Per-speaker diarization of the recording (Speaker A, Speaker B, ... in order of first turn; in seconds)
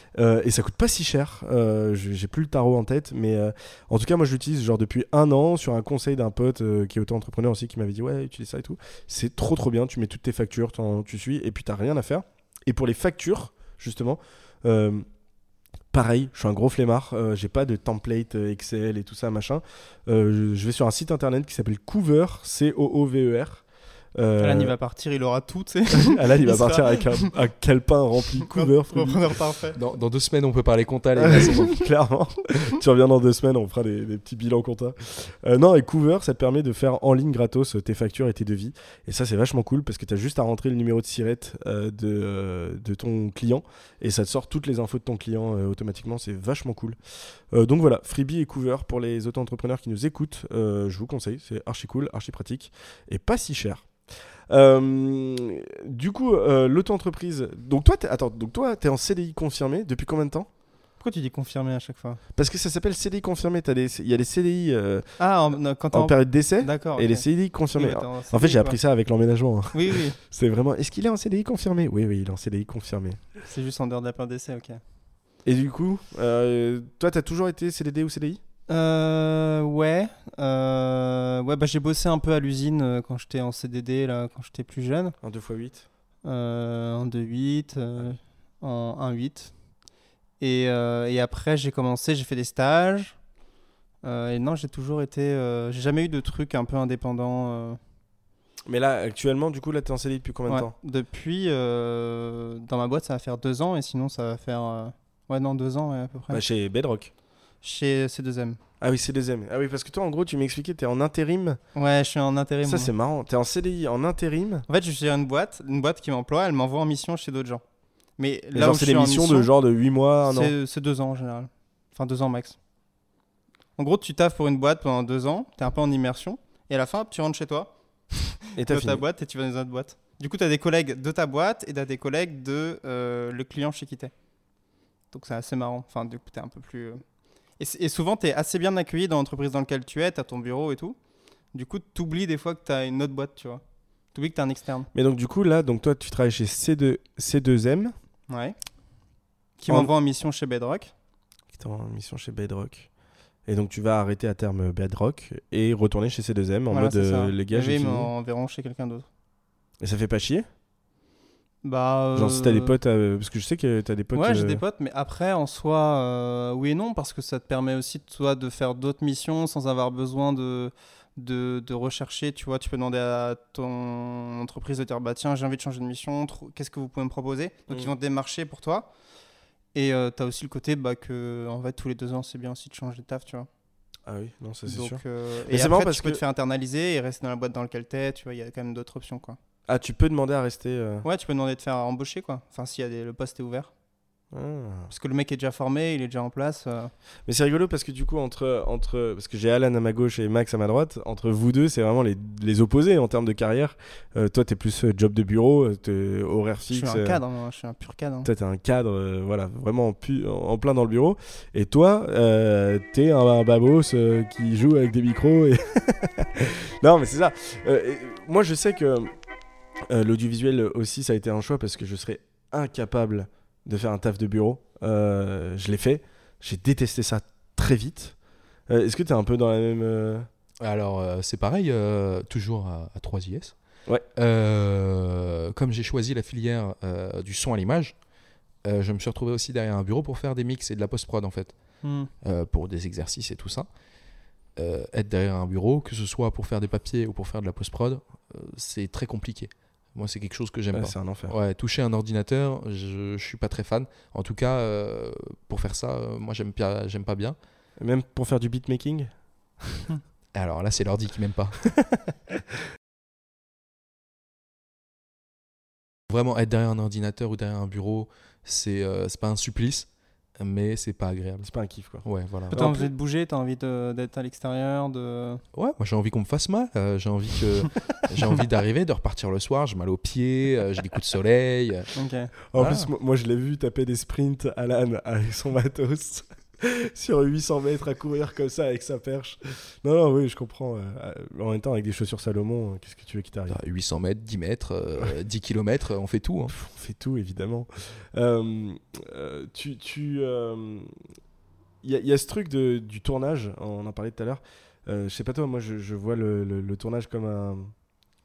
Speaker A: 0.1-15.1, 15.9-23.6, 24.1-24.7, 25.9-29.4, 31.1-47.0, 47.5-53.9, 54.5-60.5, 62.3-65.1, 65.9-73.2, 75.4-78.4, 85.2-85.8, 98.7-100.7, 106.3-107.1, 108.8-111.6, 112.6-114.7, 118.5-120.5, 128.6-129.0, 144.9-147.9, 151.5-152.9, 153.5-158.1, 159.8-160.5, 162.1-164.6, 184.1-186.2, 189.7-191.1, 194.3-194.9, 197.2-207.2, 208.2-219.1, 219.9-228.2, 228.7-230.3, 250.7-251.3, 257.8-259.9, 271.4-272.9, 282.5-293.6, 296.5-300.9, 301.8-307.7
Speaker B: 24.4-27.3, 28.4-29.8, 61.0-62.2, 65.2-68.8, 69.7-70.2, 73.4-74.8, 78.7-85.2, 86.2-89.5, 90.4-93.2, 94.0-97.8, 100.5-106.4, 107.6-108.6, 111.7-112.9, 114.7-117.6, 118.2-119.5, 120.2-122.6, 123.8-134.1, 135.1-137.0, 137.6-141.0, 141.5-143.6, 144.1-144.9, 148.3-148.6, 149.6-150.9, 156.7-159.1, 161.6-162.7, 164.1-178.9, 179.7-183.5, 184.7-189.4, 191.0-193.7, 194.9-196.9, 206.7-208.3, 241.8-242.1, 272.5-275.4, 281.9-282.3
Speaker C: 29.7-31.8, 230.6-233.5, 234.2-237.9, 238.6-241.5, 242.2-243.7, 244.6-257.4, 260.3-261.8, 266.1-269.9, 270.4-271.5, 272.0-272.7, 275.5-281.9, 282.5-282.9, 293.5-296.5